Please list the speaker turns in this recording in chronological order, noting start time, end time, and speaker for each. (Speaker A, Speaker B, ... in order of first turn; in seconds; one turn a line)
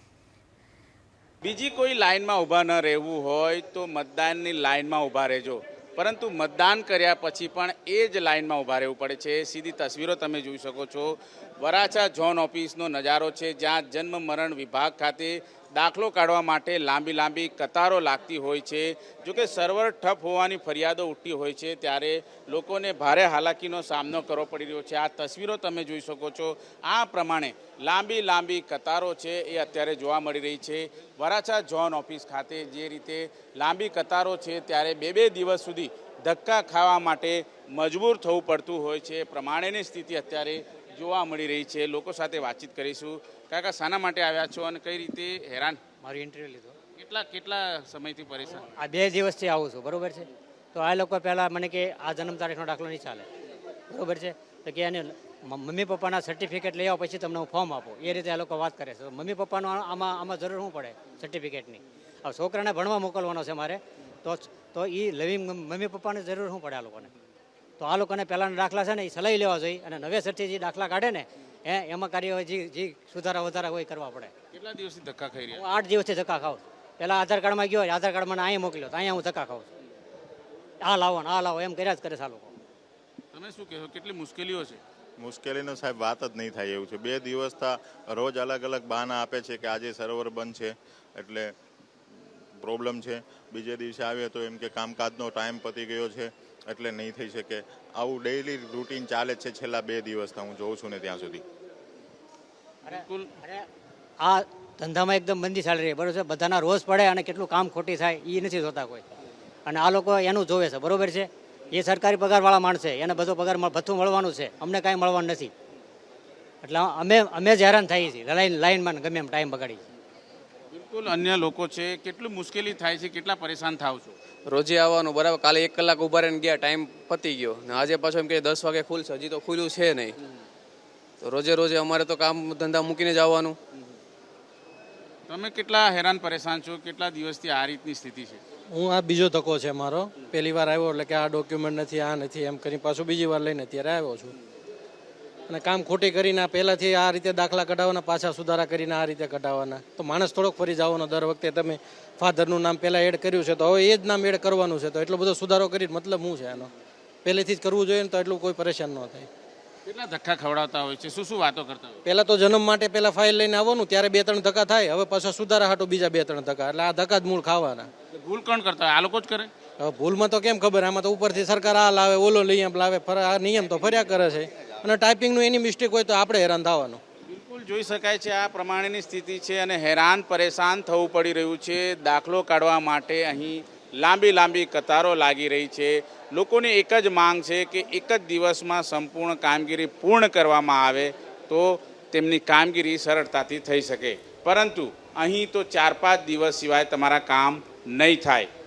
Speaker A: 1.4-45.8
Speaker B: 46.0-46.8
Speaker A: 47.0-48.8
Speaker B: 48.7-53.3
Speaker B: 53.9-67.1
Speaker B: 67.8-74.3
Speaker A: 74.5-75.7
Speaker B: 75.5-79.7
Speaker B: 80.8-82.5
Speaker A: 83.3-84.8
Speaker C: 85.2-91.5
Speaker C: 92.6-101.4
Speaker A: 102.9-103.3
Speaker B: 102.9-103.7
Speaker B: 104.2-109.1
Speaker B: 109.7-115.5
Speaker B: 116.6-119.8
Speaker A: 120.7-124.2
Speaker D: 124.5-130.2
Speaker D: 131.2-133.6
Speaker A: 135.3-138.4
Speaker E: 138.7-144.3
Speaker E: 145.5-156.7
Speaker E: 157.2-159.3
Speaker A: 159.9-162.0
Speaker E: 162.1-167.9
Speaker A: 168.1-169.5
Speaker E: 169.8-177.0
Speaker A: 177.3-198.5